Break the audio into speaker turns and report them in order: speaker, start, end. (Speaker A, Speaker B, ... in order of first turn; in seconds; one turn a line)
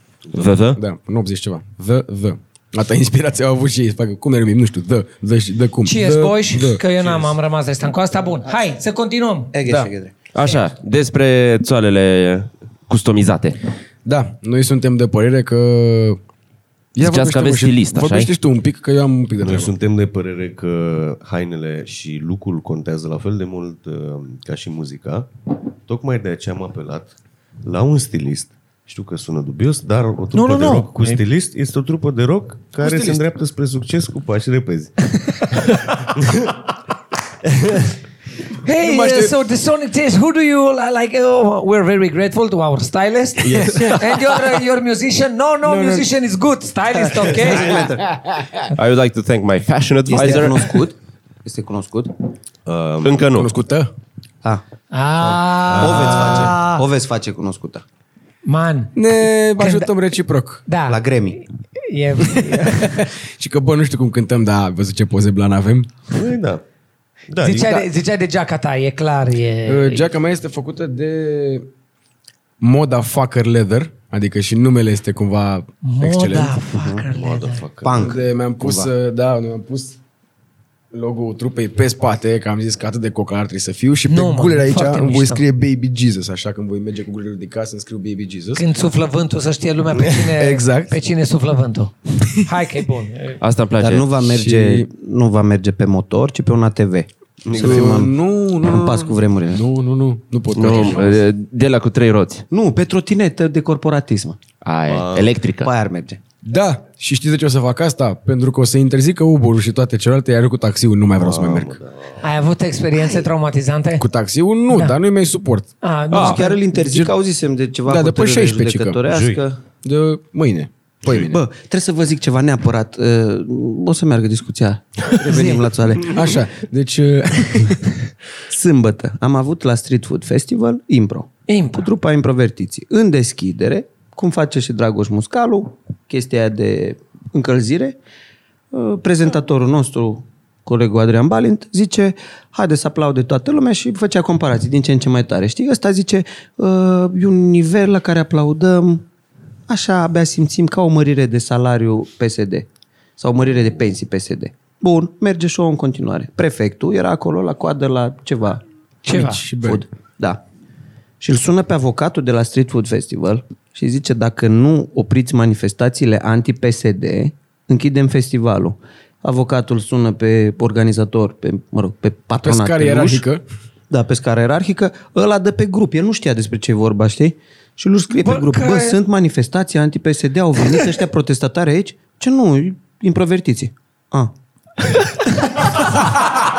Speaker A: 0.3-0.8
Speaker B: 0.8-6.8
Speaker C: 5.8-9.5
Speaker D: 9.5-10.1
Speaker A: 10.3-13.6
Speaker B: 14.1-16.2
Speaker B: 16.9-19.7
Speaker A: 17.0-18.3
Speaker E: 19.4-25.3
Speaker E: 25.9-36.5
Speaker C: 30.3-30.9
Speaker B: 32.8-33.2
Speaker E: 37.6-37.9
Speaker C: 38.6-47.9
Speaker B: 38.8-39.4
Speaker B: 43.4-44.1
Speaker B: 45.7-46.1
Speaker D: 47.4-48.0
Speaker A: 48.7-50.8
Speaker D: 50.1-52.2
Speaker E: 52.6-53.3
Speaker A: 53.0-53.5
Speaker B: 53.3-53.9
Speaker C: 54.9-56.8
Speaker D: 55.2-57.8
Speaker E: 55.7-56.6
Speaker C: 58.5-59.9
Speaker B: 59.0-60.6
Speaker C: 60.7-61.0
Speaker D: 60.9-61.4
Speaker C: 61.8-63.0
Speaker B: 62.2-66.0
Speaker E: 66.1-66.6
Speaker E: 67.3-67.9
Speaker C: 67.4-70.1
Speaker B: 69.7-71.7
Speaker B: 72.6-76.5
Speaker C: 75.8-77.6
Speaker D: 76.7-77.1
Speaker E: 77.1-78.1
Speaker D: 77.8-78.9
Speaker B: 78.0-80.0
Speaker B: 80.9-88.6
Speaker C: 84.1-85.4
Speaker C: 88.5-93.4
Speaker B: 90.3-91.0
Speaker A: 93.4-94.1
Speaker D: 93.8-99.6
Speaker B: 94.2-94.9
Speaker E: 97.4-98.1
Speaker B: 97.5-101.2
Speaker A: 100.5-102.5
Speaker D: 102.5-104.4
Speaker A: 104.6-105.7
Speaker E: 104.9-105.3
Speaker D: 105.6-106.2
Speaker B: 106.4-111.8
Speaker E: 111.2-112.3
Speaker C: 112.2-114.0
Speaker B: 114.0-117.1
Speaker C: 114.7-115.0
Speaker C: 115.8-116.6
Speaker D: 116.1-119.6
Speaker B: 117.9-119.0
Speaker E: 119.1-119.4
Speaker B: 119.8-121.4
Speaker D: 121.1-126.4
Speaker C: 125.2-125.6
Speaker B: 126.0-128.0
Speaker D: 128.5-138.0
Speaker C: 131.5-131.9
Speaker D: 138.7-149.0
Speaker D: 149.7-152.7
Speaker D: 153.2-158.6
Speaker C: 159.1-159.4
Speaker B: 159.1-159.8
Speaker D: 159.6-160.4
Speaker D: 161.2-173.2
Speaker B: 172.4-173.4
Speaker D: 173.9-184.3
Speaker C: 178.1-179.0